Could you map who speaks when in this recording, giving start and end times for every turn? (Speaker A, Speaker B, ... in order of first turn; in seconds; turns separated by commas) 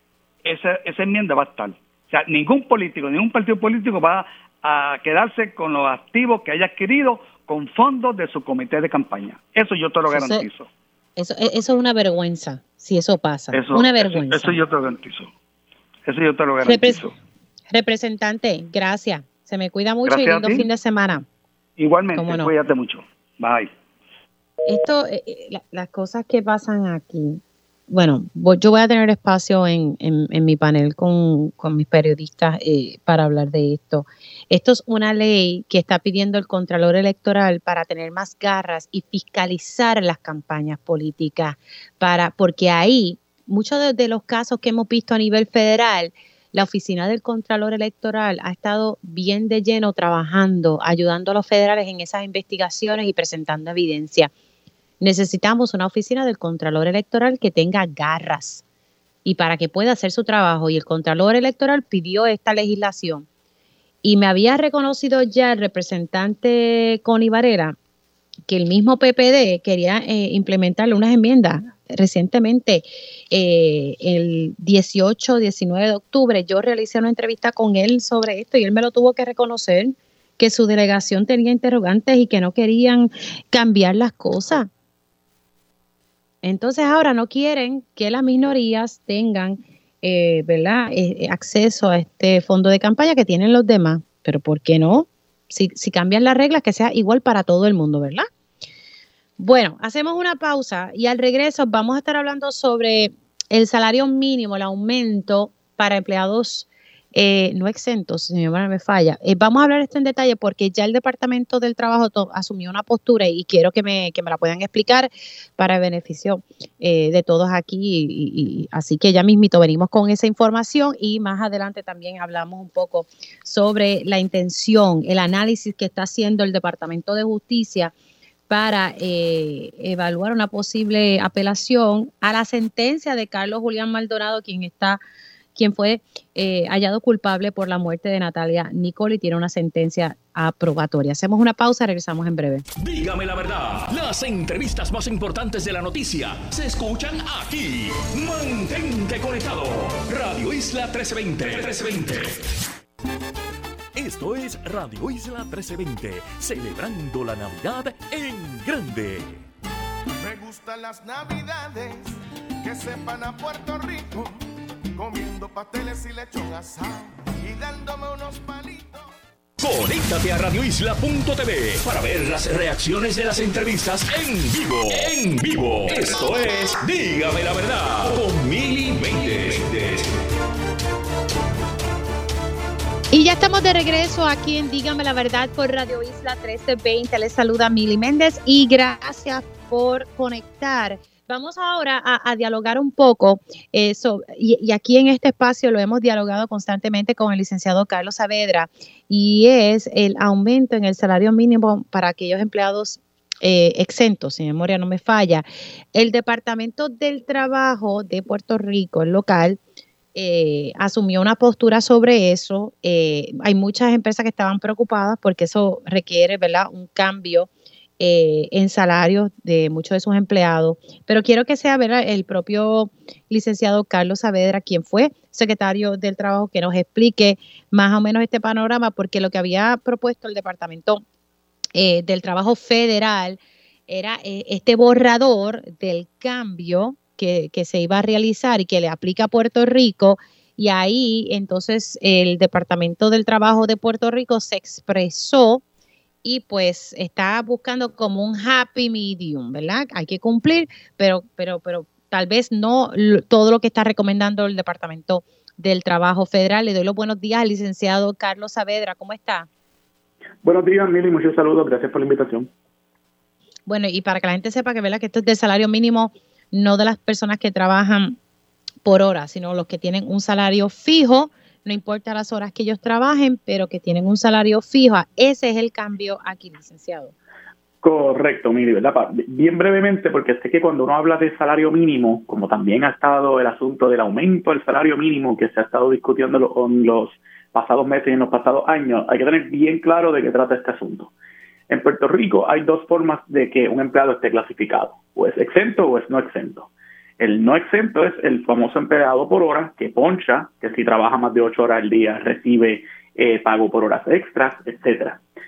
Speaker A: 0.4-10.7, Speaker B: 10.1-10.4, Speaker B: 11.2-14.6, Speaker A: 13.5-15.3, Speaker A: 16.1-17.1, Speaker B: 16.6-17.0, Speaker B: 17.7-21.2, Speaker A: 20.1-20.7, Speaker A: 21.8-23.7, Speaker B: 22.1-22.5, Speaker B: 24.7-54.3, Speaker B: 55.0-58.6, Speaker B: 59.2-63.3, Speaker B: 64.0-67.8, Speaker B: 68.5-84.7, Speaker B: 86.4-98.3, Speaker B: 99.4-127.9, Speaker B: 128.5-135.0, Speaker B: 135.6-142.7, Speaker C: 142.8-152.4, Speaker C: 153.9-159.4, Speaker D: 160.2-169.2, Speaker C: 169.6-180.2, Speaker B: 183.1-209.6, Speaker B: 210.2-231.0, Speaker B: 231.8-245.6, Speaker B: 246.2-259.5, Speaker E: 260.4-262.5, Speaker B: 263.7-268.2, Speaker B: 268.8-277.1, Speaker E: 277.8-291.1, Speaker E: 291.7-305.2